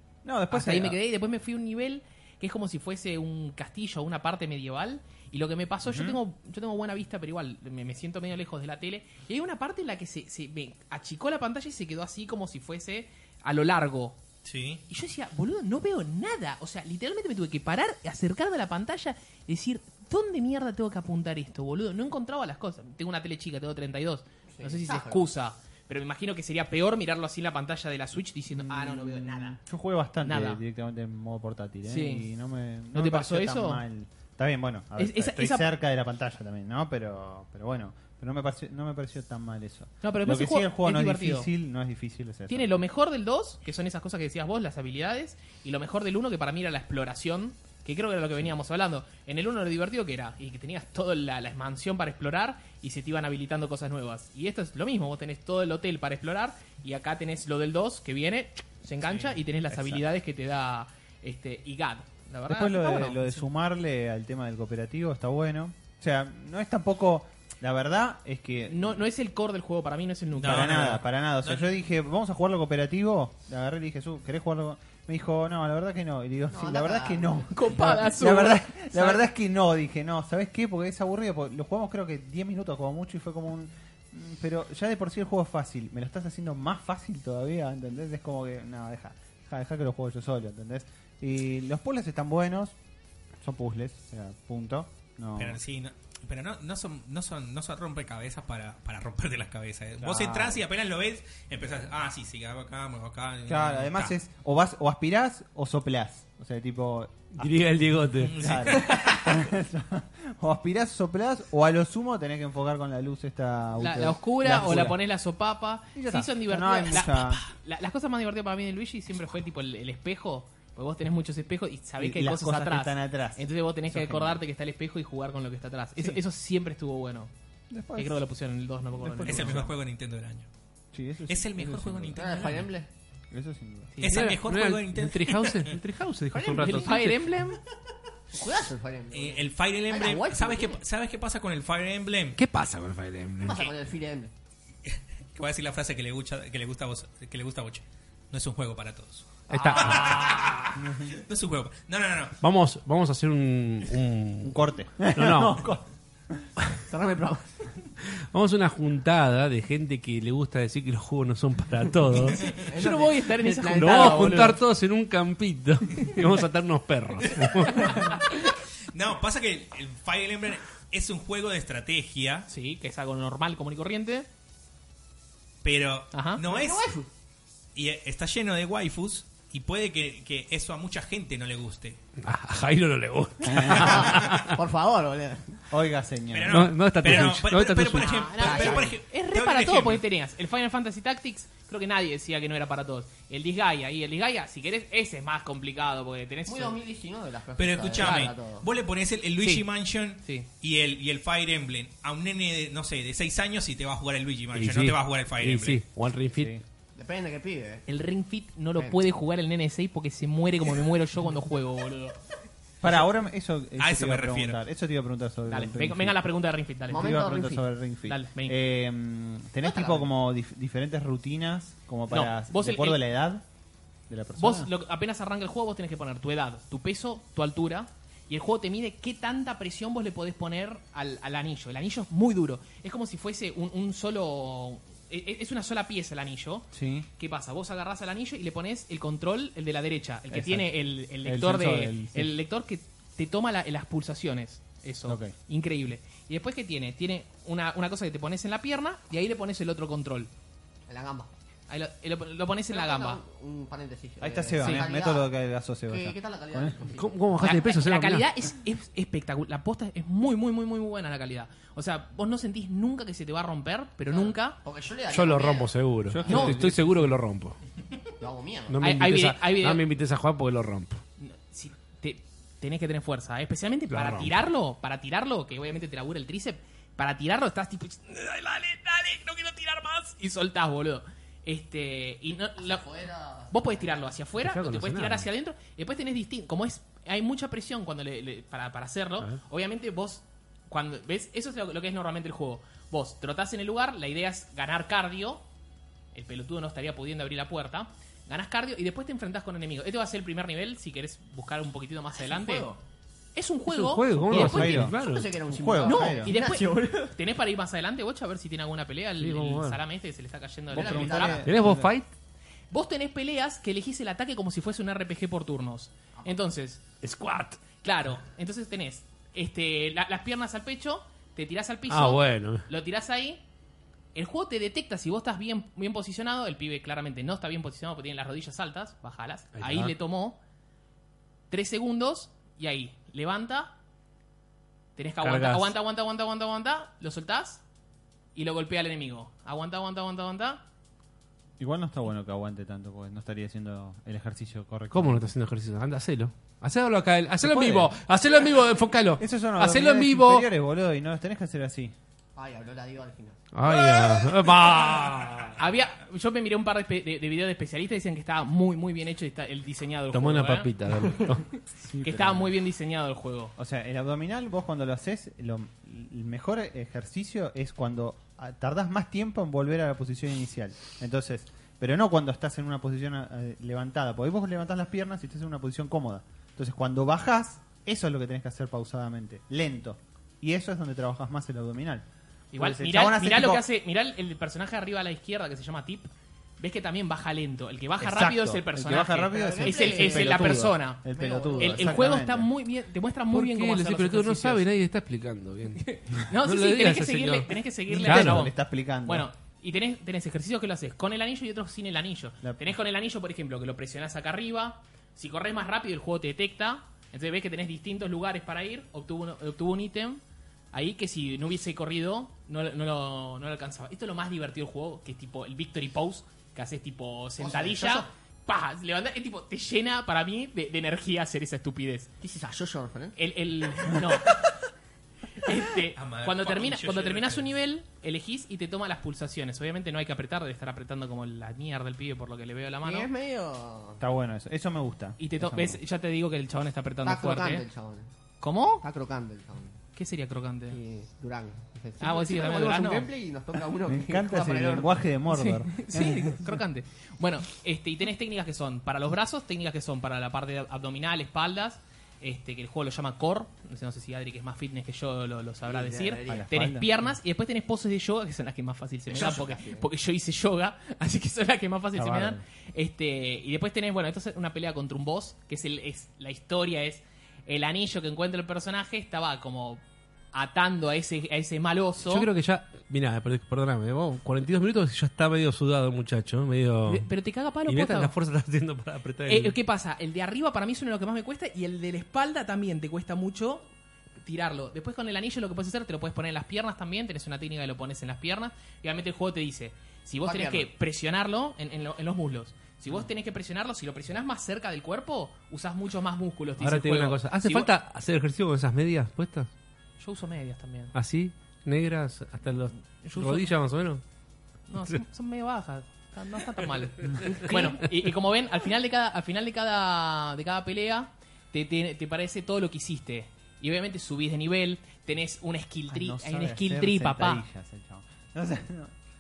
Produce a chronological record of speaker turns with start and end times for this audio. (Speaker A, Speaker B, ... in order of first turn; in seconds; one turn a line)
Speaker A: 0.2-1.0
Speaker B: 0.5-14.2
Speaker A: 5.8-6.2
Speaker C: 14.4-14.8
Speaker B: 14.9-29.6
Speaker D: 24.5-25.2
Speaker A: 28.5-42.8
Speaker B: 30.2-30.6
Speaker B: 31.9-32.3
Speaker B: 32.9-33.8
Speaker B: 35.0-35.7
Speaker B: 40.0-41.5
Speaker B: 42.5-63.4
Speaker A: 59.7-60.0
Speaker A: 62.5-69.0
Speaker B: 68.7-71.0
Speaker C: 70.3-71.7
Speaker A: 70.4-92.8
Speaker D: 76.5-77.5
Speaker B: 77.5-79.2
Speaker A: 93.4-95.6
Speaker C: 95.4-104.1
Speaker A: 100.0-100.6
Speaker A: 103.5-107.7
Speaker E: 107.3-108.5
Speaker C: 108.2-109.3
Speaker A: 108.3-115.0
Speaker B: 113.8-127.3
Speaker A: 115.9-117.4
Speaker A: 122.0-124.4
Speaker A: 127.7-128.2
Speaker B: 128.0-129.7
Speaker A: 128.9-129.7
Speaker C: 129.2-130.5
Speaker A: 130.9-132.4
Speaker C: 131.3-132.7
Speaker D: 132.1-132.9
Speaker A: 133.3-133.9
Speaker B: 133.9-134.3
Speaker C: 134.0-135.8
Speaker E: 134.1-137.3
Speaker D: 136.3-136.9
Speaker B: 136.4-137.6
Speaker D: 138.3-140.8
Speaker C: 139.1-142.4
Speaker E: 142.3-143.7
Speaker D: 143.4-144.3
Speaker C: 144.9-152.4
Speaker E: 149.5-150.7
Speaker D: 149.5-149.9
Speaker B: 149.6-150.2
Speaker A: 150.8-151.2
Speaker E: 152.4-154.6
Speaker A: 154.4-156.5
Speaker E: 155.1-155.6
Speaker D: 156.9-157.7
Speaker E: 158.3-162.5
Speaker D: 162.5-164.5
Speaker B: 162.6-164.6
Speaker E: 163.7-168.0
Speaker C: 167.3-172.5
Speaker B: 172.5-174.3
Speaker C: 175.6-176.9
Speaker B: 176.1-176.4
Speaker D: 176.4-177.1
Speaker C: 177.7-182.0
Speaker E: 182.2-184.6
Speaker A: 183.6-183.9
Speaker D: 183.6-185.6
Speaker A: 185.7-186.7
Speaker C: 186.3-190.0
Speaker E: 186.5-188.1
Speaker B: 187.9-196.8
Speaker D: 188.3-188.9
Speaker D: 196.5-198.7
Speaker C: 197.6-205.8
Speaker B: 198.0-198.3
Speaker E: 204.5-206.5
Speaker A: 206.3-206.6
Speaker D: 206.9-207.8
Speaker B: 207.9-212.2
Speaker A: 212.8-216.2
Speaker C: 213.8-214.6
Speaker B: 215.5-217.3
Speaker D: 216.9-217.6
Speaker A: 216.9-223.4
Speaker B: 218.1-218.6
Speaker D: 219.6-220.1
Speaker B: 222.1-223.0
Speaker A: 224.1-224.7
Speaker B: 224.3-250.3
Speaker A: 236.7-237.1
Speaker A: 240.3-242.3
Speaker A: 245.1-245.3
Speaker D: 250.9-251.3
Speaker B: 251.7-253.2
Speaker D: 252.7-255.3
Speaker A: 254.2-256.8
Speaker B: 254.6-254.9
Speaker D: 255.9-257.2
Speaker E: 256.9-258.3
Speaker B: 257.4-264.6
Speaker D: 264.1-266.7
Speaker E: 265.1-267.6
Speaker A: 266.1-266.9
Speaker D: 268.2-268.8
Speaker E: 268.7-271.0
Speaker B: 268.8-269.8
Speaker B: 271.2-282.9
Speaker E: 273.9-274.4
Speaker D: 282.6-284.0
Speaker B: 283.5-295.4
Speaker E: 284.4-285.3
Speaker B: 296.1-302.7
Speaker D: 302.1-302.8
Speaker B: 303.3-304.9
Speaker E: 303.7-305.3
Speaker A: 304.3-306.4
Speaker D: 304.3-307.1
Speaker B: 305.8-311.4
Speaker E: 309.2-309.8
Speaker A: 310.7-311.9
Speaker D: 310.7-311.5
Speaker E: 311.4-312.1
Speaker B: 312.7-316.8
Speaker E: 317.0-317.6
Speaker B: 317.8-323.4
Speaker E: 321.9-322.6
Speaker B: 324.1-330.4
Speaker E: 329.5-329.9
Speaker B: 331.5-333.7
Speaker B: 334.9-337.6
Speaker E: 335.2-335.7
Speaker B: 338.3-340.6
Speaker A: 341.6-345.3
Speaker E: 344.9-350.5
Speaker A: 347.4-347.9
Speaker A: 349.2-351.9
Speaker D: 352.3-354.1
Speaker E: 353.5-355.6
Speaker B: 355.6-361.2
Speaker E: 360.1-361.5
Speaker A: 361.8-362.6
Speaker B: 362.0-363.5
Speaker A: 363.6-383.6
Speaker B: 382.5-394.6
Speaker A: 388.0-392.5
Speaker D: 389.3-392.1
Speaker E: 393.3-398.5
Speaker B: 395.8-398.5
Speaker A: 397.9-399.3
Speaker B: 399.0-410.2
Speaker A: 402.4-402.7
Speaker B: 410.7-422.1
Speaker D: 417.4-418.1
Speaker D: 422.2-423.2
Speaker B: 423.1-424.4
Speaker D: 423.9-424.3
Speaker B: 425.4-433.1
Speaker C: 425.9-427.4
Speaker D: 432.8-434.0
Speaker A: 434.0-435.8
Speaker B: 435.2-437.6
Speaker D: 437.0-438.1
Speaker B: 438.4-438.8
Speaker D: 438.8-439.8
Speaker B: 439.9-440.8
Speaker D: 440.7-444.9
Speaker B: 442.0-443.1
Speaker A: 443.9-446.5
Speaker B: 445.3-469.8
Speaker D: 455.7-456.5
Speaker A: 456.2-456.9
Speaker D: 459.1-459.9
Speaker A: 461.9-462.4
Speaker B: 470.3-472.3
Speaker E: 472.0-477.1
Speaker B: 476.9-478.1
Speaker E: 477.6-479.6
Speaker B: 479.3-483.7
Speaker B: 484.2-497.7
Speaker D: 490.2-490.7
Speaker E: 496.6-499.5
Speaker B: 500.0-500.9
Speaker E: 500.9-504.0
Speaker B: 503.0-503.5
Speaker B: 504.7-517.4
Speaker E: 507.2-507.7
Speaker A: 515.9-518.9